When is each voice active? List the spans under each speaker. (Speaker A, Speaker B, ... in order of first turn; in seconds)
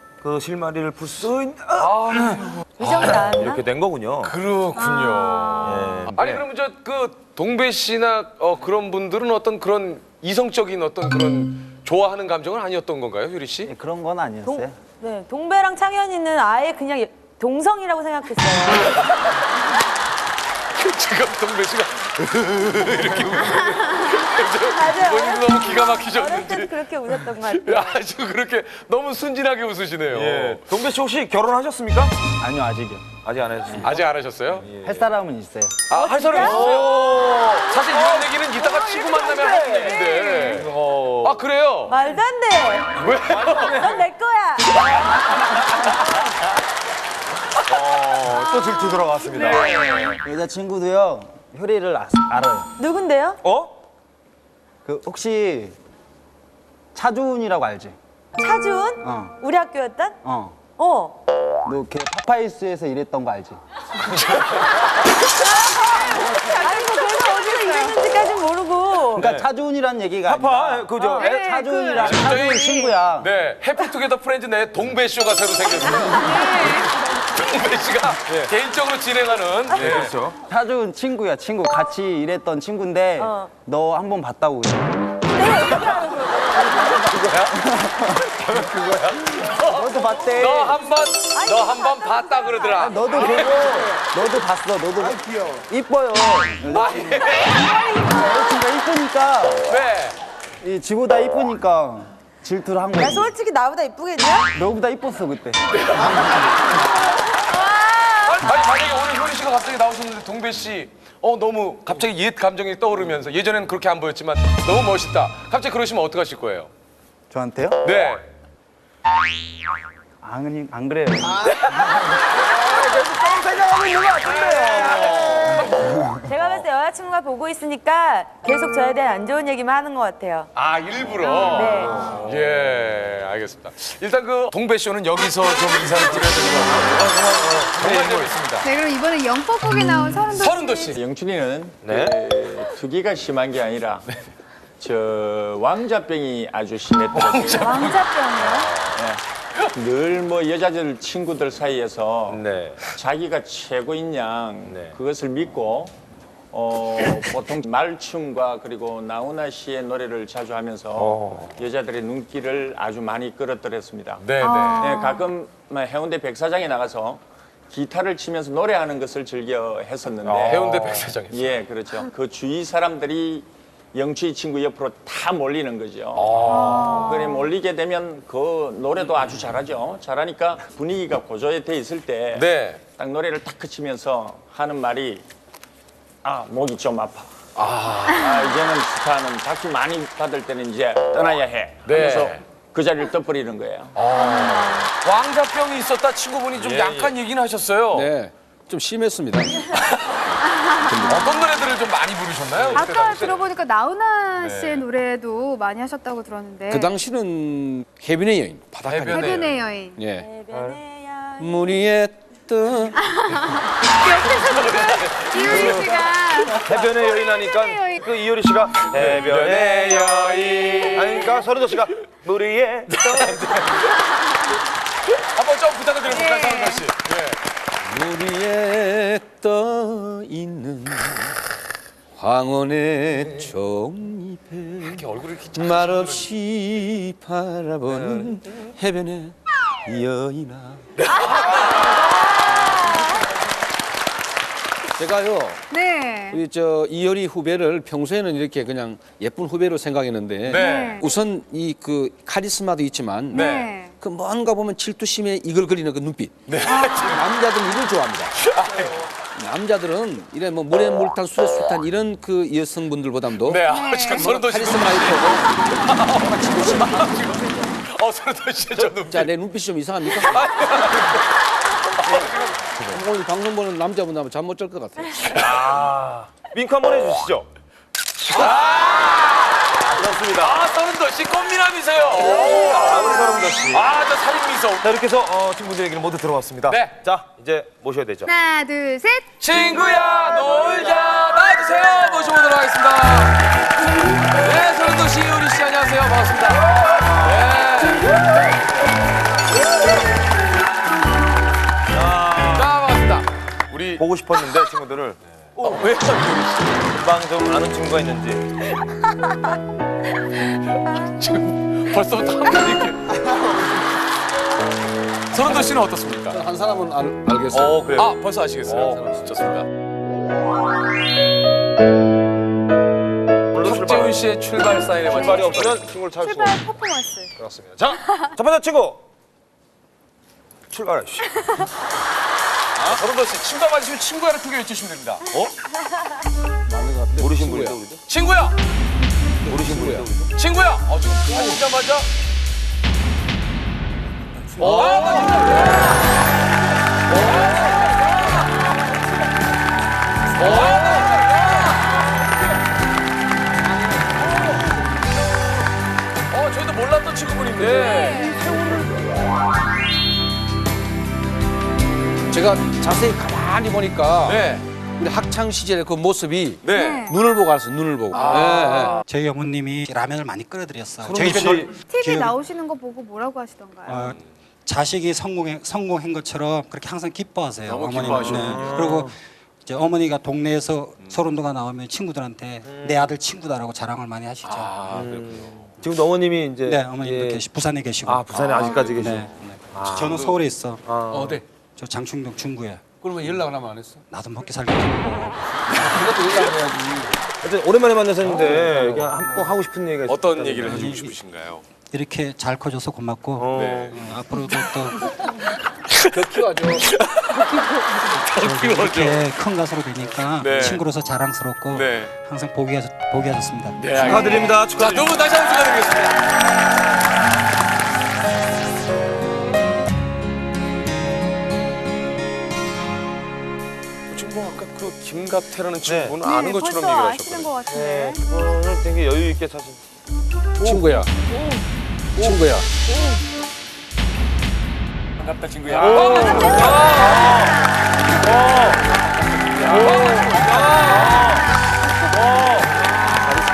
Speaker A: 0.2-1.9, 3.0-4.3, 5.6-6.4, 30.1-32.1, 33.2-35.1, 36.3-38.4, 39.0-39.9, 40.4-41.5, 43.0-44.0, 47.7-49.8, 53.4-53.7, 69.1-69.5, 70.2-71.7, 79.7-80.3, 93.5-93.8, 95.0-95.6, 122.7-125.5, 131.7-132.4, 136.4-138.3, 141.8-142.2, 148.4-149.0, 152.3-152.9, 154.7-154.9, 160.9-161.6, 170.2-171.2, 196.6-197.1, 210.5-210.8, 215.5-215.9, 216.6-220.4, 220.9-223.4, 275.4-277.5, 278.3-278.8, 279.9-280.6, 282.1-283.9, 284.8-288.3, 301.9-302.7, 303.9-305.9, 306.9-308.5, 317.6-318.1, 318.6-319.3, 323.5-324.2, 325.1-326.7, 327.4-329.0, 330.7-331.4, 337.1-338.0, 339.4-340.3, 344.6-345.5, 371.0-371.8, 378.0-379.1, 382.6-383.1, 384.9-387.5, 388.0-391.4, 397.4-401.1, 403.4-404.1, 413.9-415.5, 425.8-426.2, 427.6-429.8, 430.6-431.6, 435.7-437.5, 438.2-438.8, 439.6-441.4, 442.1-442.9
Speaker B: 1.7-3.3, 4.2-13.7, 20.8-30.6, 33.8-34.7, 35.9-42.0, 43.0-44.0, 44.7-45.0, 49.3-50.2, 64.2-64.8, 71.9-80.1, 86.6-87.6, 88.1-93.8, 96.7-97.7, 99.7-100.2, 105.7-106.7, 107.9-116.7, 117.8-118.3, 122.5-123.1, 124.2-125.9, 130.5-138.7, 140.3-141.0, 147.1-148.1, 164.2-165.0, 170.4-171.5, 176.1-177.2, 182.3-182.8, 187.6-188.3, 191.8-192.4, 193.9-198.1, 199.7-200.2, 201.0-203.5, 204.3-204.8, 208.8-209.5, 214.0-216.4, 218.8-221.3, 222.9-224.1, 225.2-227.4, 234.8-236.3, 241.0-242.8, 250.5-251.0, 253.3-253.7, 256.5-257.2, 258.4-259.0, 263.4-269.3, 270.2-272.6, 278.3-284.9, 286.7-287.1, 289.4-293.4, 294.3-298.0, 302.4-304.7, 305.6-306.9, 310.5-313.3, 315.3-316.4, 317.5-319.7, 323.6-325.8, 332.7-335.3, 338.1-338.5, 340.4-342.1, 344.6-346.0, 347.1-348.7, 350.4-352.2, 356.3-358.6, 364.2-364.6, 366.6-367.1, 368.1-369.0, 377.6-378.9, 384.4-385.7, 400.1-401.6, 403.5-404.0, 405.9-406.3, 406.9-409.3, 410.4-410.9, 411.7-412.1, 413.8-416.2, 424.1-427.6, 435.9-437.5, 439.6-441.4
Speaker C: 2.8-3.6, 14.4-19.0, 24.6-28.0, 36.0-36.7, 41.9-43.1, 43.7-44.9, 52.8-53.4, 58.4-60.2, 60.7-61.2, 65.6-69.3, 83.2-83.5, 85.3-87.1, 91.3-92.7, 103.0-104.5, 107.6-108.1, 126.2-130.5, 131.4-132.2, 210.1-211.7
Speaker D: 4.7-5.7, 38.6-40.5, 48.5-49.2, 66.0-68.2, 70.9-72.1, 76.1-76.9, 131.2-131.6, 138.6-140.9, 147.3-148.7, 164.4-165.3, 176.4-177.5, 194.1-194.7, 200.8-201.1, 202.7-206.9, 209.1-210.0, 214.0-218.1, 226.1-226.8, 245.7-246.4, 250.5-251.1, 253.3-253.9, 256.7-257.1, 263.7-264.3, 288.3-289.3, 325.1-325.5, 326.2-327.3, 357.7-358.5, 366.7-367.1, 371.9-374.0, 426.3-428.2, 436.3-437.1
Speaker E: 13.7-14.8, 32.4-33.1, 34.8-35.7, 50.2-52.7, 54.8-55.7, 56.9-57.9, 59.0-59.4, 60.2-60.6, 61.6-63.6, 69.1-73.3, 80.5-84.8, 87.0-88.2, 89.6-90.8, 92.7-99.6, 100.6-103.3, 104.5-106.5, 117.3-117.8, 120.2-121.6, 125.2-126.1
Speaker F: 141.0-144.1, 144.8-147.8, 148.9-149.2, 149.7-152.4, 152.9-155.9, 156.5-164.2, 164.9-170.5, 171.3-176.5, 177.1-182.4, 182.9-185.2, 186.2-187.3, 188.2-193.9, 435.2-436.2
Speaker G: 197.9-199.6, 200.7-201.5, 206.7-210.3, 211.4-213.1, 227.8-231.4, 232.1-240.9, 245.0-245.7, 246.3-258.4, 259.3-267.0, 269.1-270.4, 272.9-275.5, 316.3-317.8, 336.7-337.8, 339.4-340.1, 344.6-344.9, 362.3-369.0, 391.1-391.4, 393.0-394.0, 395.7-397.2, 398.3-399.1, 406.1-406.9, 430.6-431.1, 432.2-432.7
Speaker H: 369.0-372.4, 373.8-379.1, 379.6-384.9, 386.6-390.8, 391.8-392.9, 394.1-395.9, 401.9-405.0, 408.3-414.5